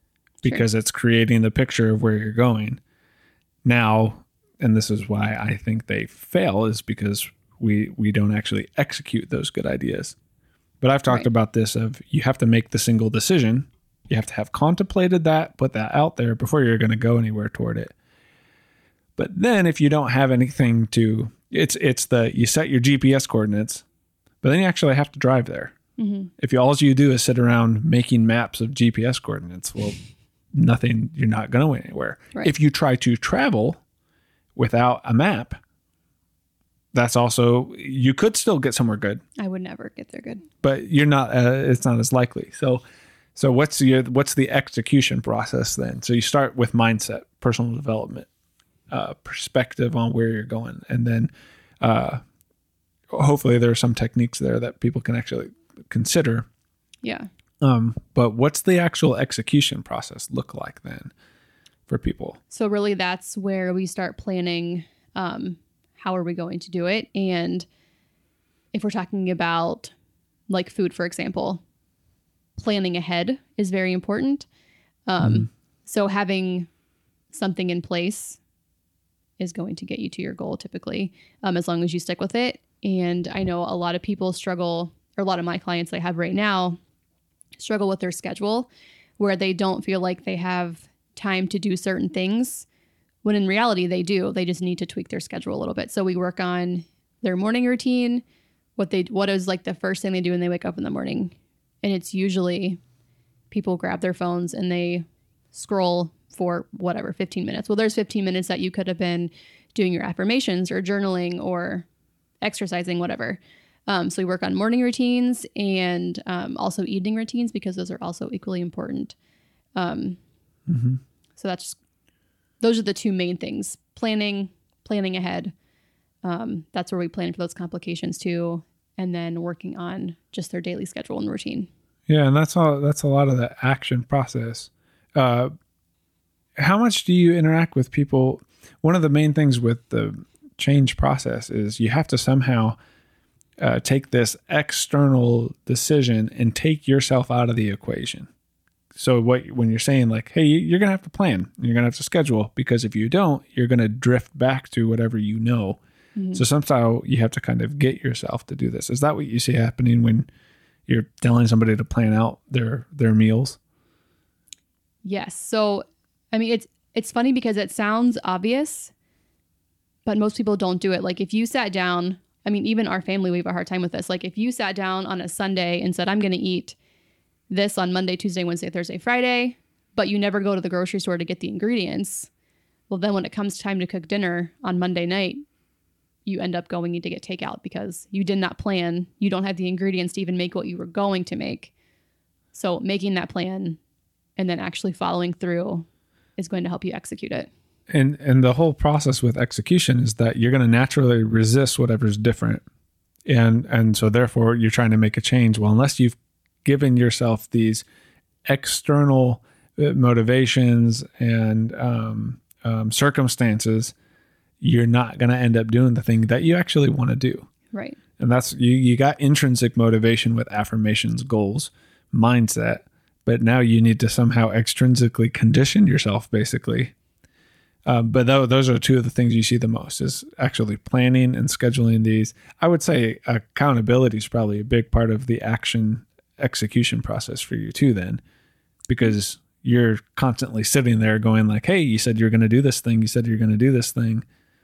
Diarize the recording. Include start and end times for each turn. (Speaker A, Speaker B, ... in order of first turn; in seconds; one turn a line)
Speaker A: 0.4-2.8
Speaker A: 3.6-10.2
Speaker A: 10.8-17.9
Speaker A: 19.2-23.9
Speaker A: 24.4-25.7
Speaker B: 26.0-26.3
Speaker A: 26.4-30.0
Speaker A: 30.5-33.8
Speaker A: 34.6-35.6
Speaker A: 36.9-39.2
Speaker B: 39.4-40.5
Speaker A: 40.6-42.8
Speaker A: 43.4-48.3
Speaker A: 48.9-51.3
Speaker A: 51.8-52.2
Speaker A: 53.1-56.5
Speaker B: 57.0-57.3
Speaker A: 57.6-61.1
Speaker A: 61.9-62.4
Speaker B: 62.5-67.7
Speaker B: 68.7-69.9
Speaker B: 70.5-71.6
Speaker B: 72.6-74.5
Speaker B: 75.1-76.7
Speaker A: 75.2-75.5
Speaker B: 77.3-78.4
Speaker B: 79.4-86.8
Speaker B: 87.6-92.7
Speaker B: 93.2-98.2
Speaker B: 98.8-102.8
Speaker B: 103.5-111.9
Speaker B: 112.4-119.1
Speaker B: 119.8-120.2
Speaker A: 120.7-121.0
Speaker B: 121.4-121.8
Speaker B: 122.6-125.5
Speaker B: 126.2-131.7
Speaker A: 132.1-135.5
Speaker A: 136.6-142.8
Speaker A: 143.6-148.3
Speaker A: 148.9-155.8
Speaker B: 156.2-156.4
Speaker A: 156.3-160.3
Speaker A: 160.9-163.6
Speaker B: 165.0-168.9
Speaker B: 170.1-176.8
Speaker B: 177.5-182.3
Speaker B: 182.9-185.4
Speaker B: 186.3-191.7
Speaker B: 192.5-193.8
Speaker B: 194.4-197.5
Speaker A: 197.9-202.6
Speaker A: 203.3-207.8
Speaker A: 208.4-213.9
Speaker A: 214.6-217.5
Speaker B: 217.7-218.0
Speaker A: 218.2-226.9
Speaker A: 227.9-238.2
Speaker A: 238.9-244.2